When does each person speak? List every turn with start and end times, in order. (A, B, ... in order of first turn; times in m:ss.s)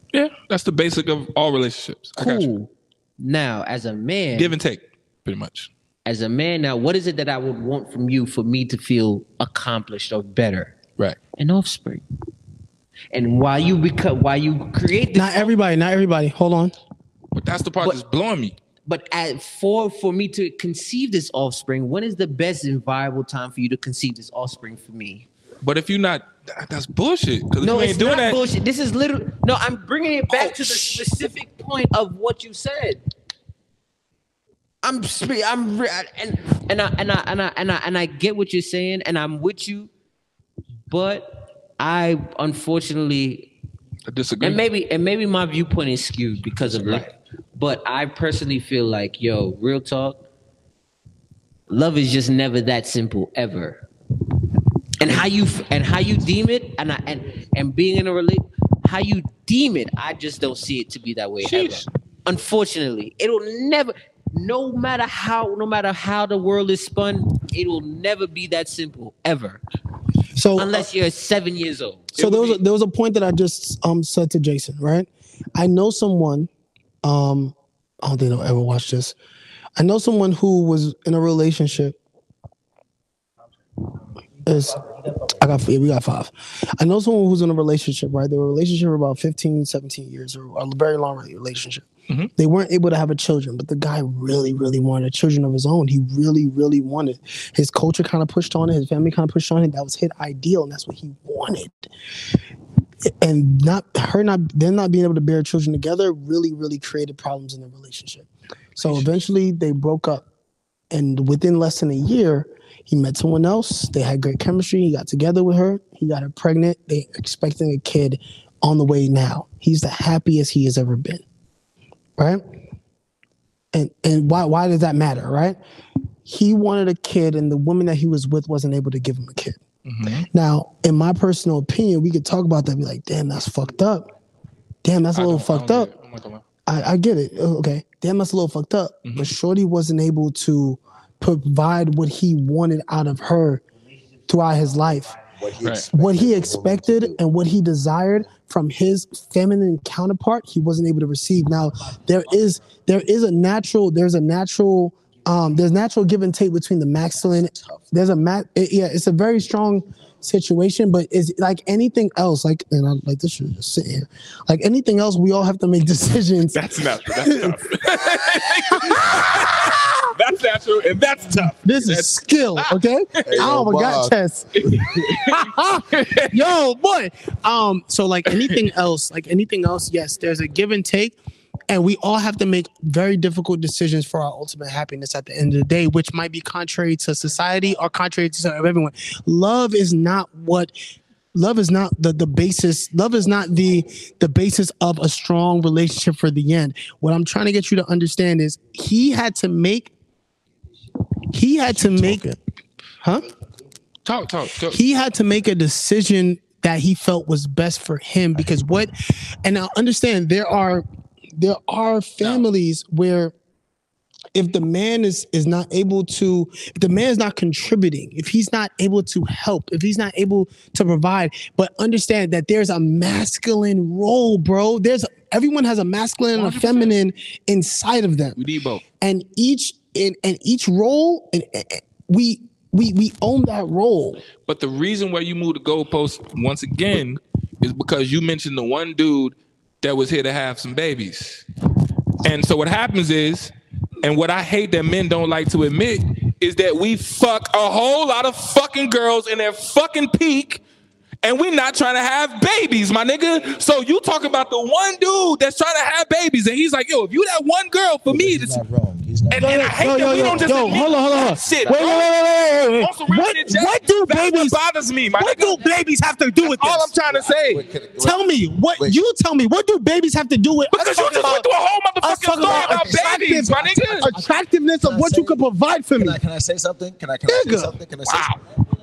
0:00.1-0:02.5 A
0:02.2-0:04.6 B
0:04.3-0:05.7 A
0:06.0-0:10.8 B
0:11.4-0:12.0 B
0:13.1-0:15.5 B
0:15.1-0:16.7 C
0:17.3-0:18.6 A
0:18.8-0:25.3 B
0:25.6-0:28.4 A
0:27.6-0:33.0 B
0:30.3-0:31.0 A
0:34.8-0:39.9 B
0:40.9-0:43.5 B
0:44.1-0:44.6 A
0:44.4-0:50.2 B
0:46.6-0:47.1 A
0:51.7-0:53.8 B
0:55.0-1:09.6 B
1:01.4-1:01.8 A
1:10.4-1:10.8 C
1:10.6-1:12.1 B
1:12.1-1:12.6 A
1:12.2-1:16.5 C
1:17.0-1:19.2 C
1:19.8-1:22.0 C
1:24.4-1:41.9 C
1:43.2-1:50.2 C
1:48.8-1:49.1 A
1:50.9-2:01.2 C
2:03.7-2:05.6 C
2:06.2-2:09.6 C
2:09.8-2:10.3 A
2:10.1-2:14.1 C
2:14.8-2:15.9 C
2:15.1-2:16.4 A
2:16.7-2:23.6 C
2:19.0-2:19.3 A
2:24.3-2:25.2 C
2:25.4-2:27.2 D
2:25.9-2:46.6 C
2:46.5-2:52.7 A
2:47.2-2:47.6 C
2:48.4-2:50.0 C
2:51.6-2:54.6 C
2:53.2-2:55.1 D
2:53.3-2:53.5 A
2:54.5-2:56.5 A
2:55.1-3:01.2 C
2:58.3-2:58.6 A
3:01.7-3:10.7 C
3:11.3-3:19.9 C
3:21.3-3:22.2 C
3:21.6-3:22.4 D
3:24.0-3:24.8 A
3:24.7-3:28.9 C
3:29.4-3:30.8 C
3:31.4-3:33.3 C
3:32.2-3:32.4 A
3:34.3-3:48.4 C
3:46.3-3:46.9 A
3:48.4-3:48.8 A
3:49.0-3:54.2 C
3:54.4-4:01.4 A
4:02.2-4:10.6 A
4:11.2-4:18.6 A
4:18.1-4:21.9 D
4:19.3-4:22.1 A
4:19.3-4:24.6 C
4:22.8-4:25.6 A
4:25.2-4:26.9 C
4:26.4-4:27.6 A
4:27.0-4:28.2 D
4:28.0-4:31.4 C
4:28.8-4:29.0 D
4:30.7-4:34.1 A
4:32.0-4:36.2 C
4:34.8-4:35.4 D
4:35.9-4:38.4 D
4:37.3-4:37.7 C
4:38.1-4:38.4 A